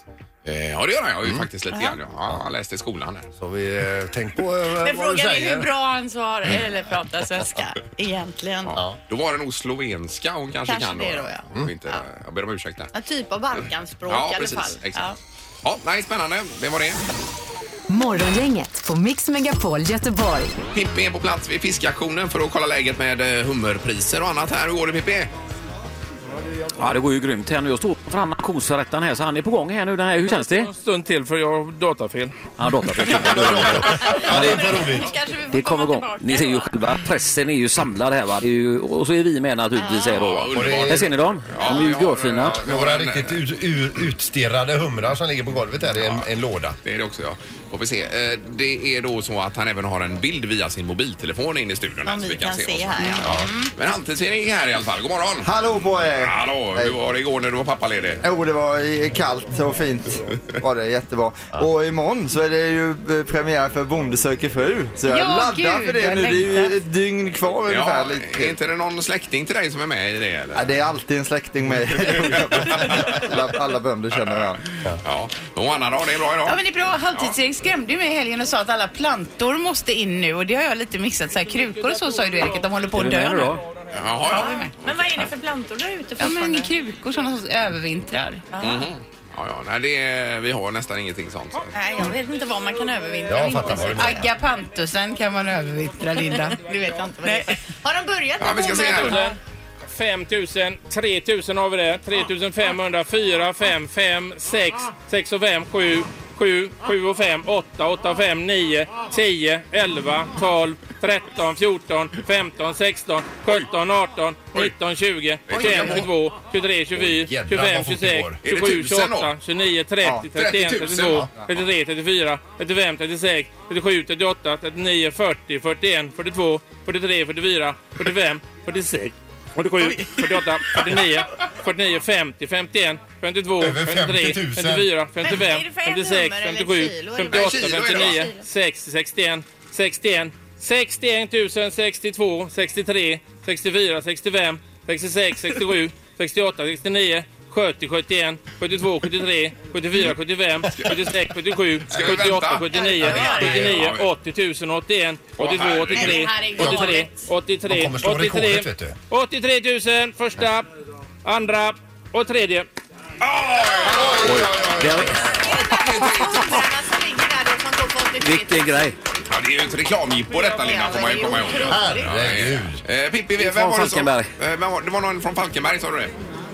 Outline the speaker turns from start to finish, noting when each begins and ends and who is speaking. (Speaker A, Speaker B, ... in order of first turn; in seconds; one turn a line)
Speaker A: 0.5-3.3
Speaker B: 1.7-2.0
Speaker C: 3.4-5.7
Speaker B: 4.8-8.8
Speaker A: 8.7-12.9
Speaker B: 10.7-12.0
Speaker B: 12.9-15.2
Speaker A: 14.1-15.0
Speaker A: 15.6-17.0
Speaker D: 17.9-20.6
Speaker A: 20.7-25.3
Speaker E: 26.8-30.7
Speaker F: 30.3-32.4
Speaker E: 32.6-34.7
Speaker C: 33.0-35.1
Speaker B: 33.4-36.7
Speaker E: 35.5-42.6
Speaker B: 39.7-40.2
Speaker A: 40.1-43.4
Speaker C: 40.5-41.1
Speaker B: 41.6-41.9
Speaker C: 42.6-46.8
Speaker A: 46.0-46.3
Speaker A: 46.8-55.5
Speaker B: 52.0-53.7
Speaker G: 55.4-57.0
Speaker A: 56.2-58.2
Speaker G: 58.2-68.6
Speaker H: 65.1-66.8
Speaker A: 67.7-70.7
Speaker G: 70.5-74.9
Speaker A: 72.5-73.2
Speaker A: 75.0-76.6
Speaker H: 76.5-83.5
Speaker E: 83.0-83.6
Speaker A: 83.9-85.0
Speaker B: 84.3-86.7
Speaker H: 84.3-84.7
Speaker H: 86.2-88.5
Speaker B: 88.5-88.9
Speaker A: 88.6-91.7
Speaker B: 91.7-94.2
Speaker C: 93.3-94.3
Speaker H: 93.9-96.6
Speaker B: 96.4-99.3
Speaker H: 97.2-97.5
Speaker A: 98.4-99.2
Speaker F: 98.8-99.4
Speaker F: 99.9-160.7
Speaker A: 115.5-116.1
Speaker C: 115.6-116.0
Speaker C: 117.0-118.4
Speaker A: 118.4-119.3
Speaker A: 120.3-121.5
Speaker C: 133.6-134.9
Speaker B: 135.2-138.4
Speaker A: 137.3-138.3
Speaker A: 150.7-151.0
Speaker A: 151.9-154.1
Speaker B: 152.7-153.7
Speaker C: 153.3-153.8
Speaker A: 155.4-156.3
Speaker B: 155.9-157.3
Speaker C: 156.6-156.9
Speaker C: 157.7-158.9
Speaker F: 161.2-162.7
Speaker A: 163.2-166.6
Speaker C: 163.8-165.4
Speaker E: 164.2-165.2
Speaker B: 165.1-168.9
Speaker E: 168.2-169.0
Speaker A: 169.3-176.1
Speaker B: 170.6-172.3
Speaker C: 171.6-172.8
Speaker E: 173.4-174.3